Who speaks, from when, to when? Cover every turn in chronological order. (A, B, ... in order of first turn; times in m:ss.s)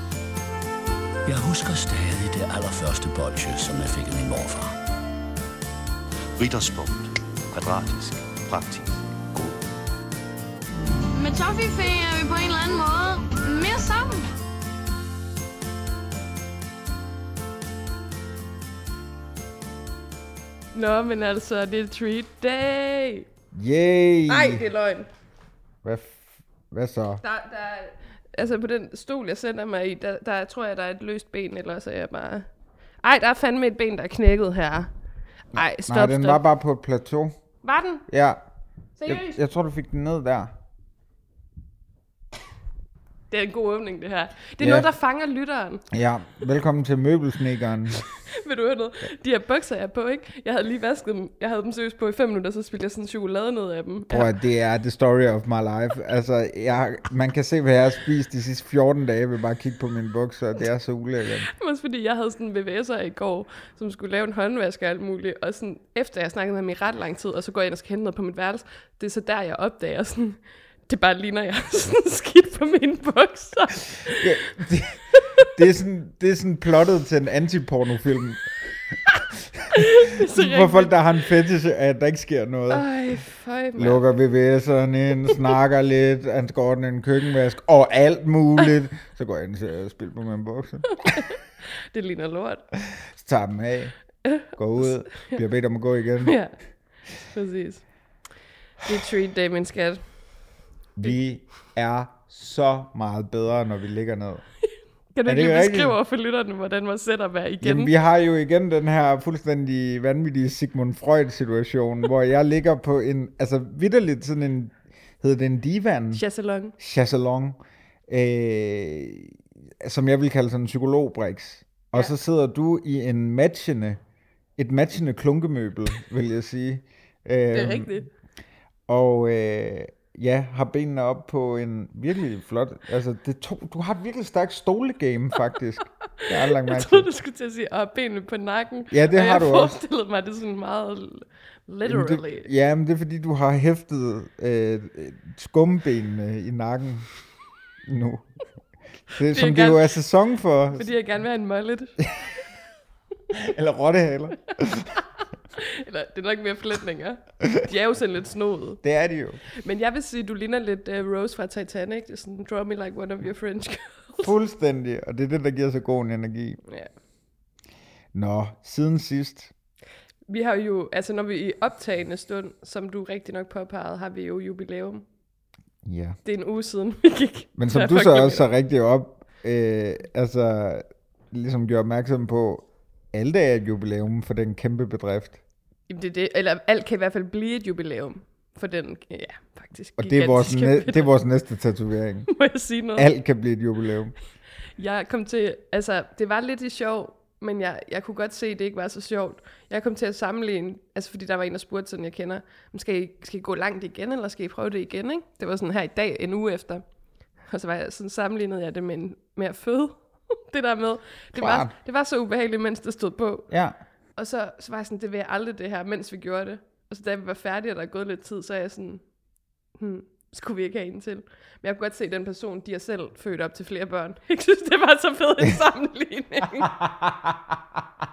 0:01.2-0:04.8 A
0:06.4-0:09.6 B
0:11.1-0:14.3 C
0:20.7-0:23.2 D
0:23.5-0:24.6 E
0:24.3-0:25.1 D
0:25.8-0:27.2 E
0:27.2-0:32.5 D
0:33.0-0:34.9 D
0:35.5-0:36.4 D
0:35.6-0:37.4 E
0:37.6-0:38.0 D
0:38.1-0:38.4 E
0:39.0-0:39.4 D
0:39.0-0:40.5 E
0:43.3-0:45.9 D
0:44.6-0:44.9 E
0:45.9-0:48.0 E
0:48.2-0:54.3 D
0:54.1-1:01.5 E
1:01.5-1:14.3 D
1:14.1-1:18.5 E
1:19.6-1:22.9 E
1:19.7-1:20.9 D
1:22.7-1:24.0 D
1:23.8-1:31.2 E
1:30.9-1:31.4 D
1:31.9-1:32.6 D
1:33.0-1:36.4 E
1:36.2-1:36.5 D
1:37.2-1:37.8 D
1:38.8-1:40.0 D
1:41.0-1:44.4 E
1:45.1-1:47.9 D
1:45.2-1:46.0 E
1:47.6-1:56.2 E
1:56.1-1:56.8 D
1:56.8-2:04.0 E
2:04.6-2:08.0 E
2:07.5-2:08.1 D
2:08.9-2:17.1 E
2:16.2-2:22.5 D
2:18.9-2:19.8 E
2:21.8-2:27.1 E
2:27.8-2:28.3 E
2:29.1-2:30.9 E
2:29.2-2:29.9 D
2:30.7-2:32.0 D
2:33.3-2:35.0 E
2:35.5-2:38.8 D
2:38.8-2:39.4 E
2:39.5-2:44.3 D
2:44.2-2:46.6 E
2:48.1-2:49.5 E
2:50.3-2:55.0 D
2:55.8-2:56.2 E
2:56.2-2:58.5 D
2:57.6-3:05.4 E
3:05.9-3:11.2 D
3:10.0-3:12.3 E
3:12.3-3:13.1 D
3:13.0-3:14.1 E
3:14.8-3:26.8 D
3:27.5-3:33.5 D
3:31.3-3:31.7 E
3:33.5-3:33.8 E
3:34.2-3:39.0 D
3:39.8-3:46.8 D
3:46.8-3:47.6 E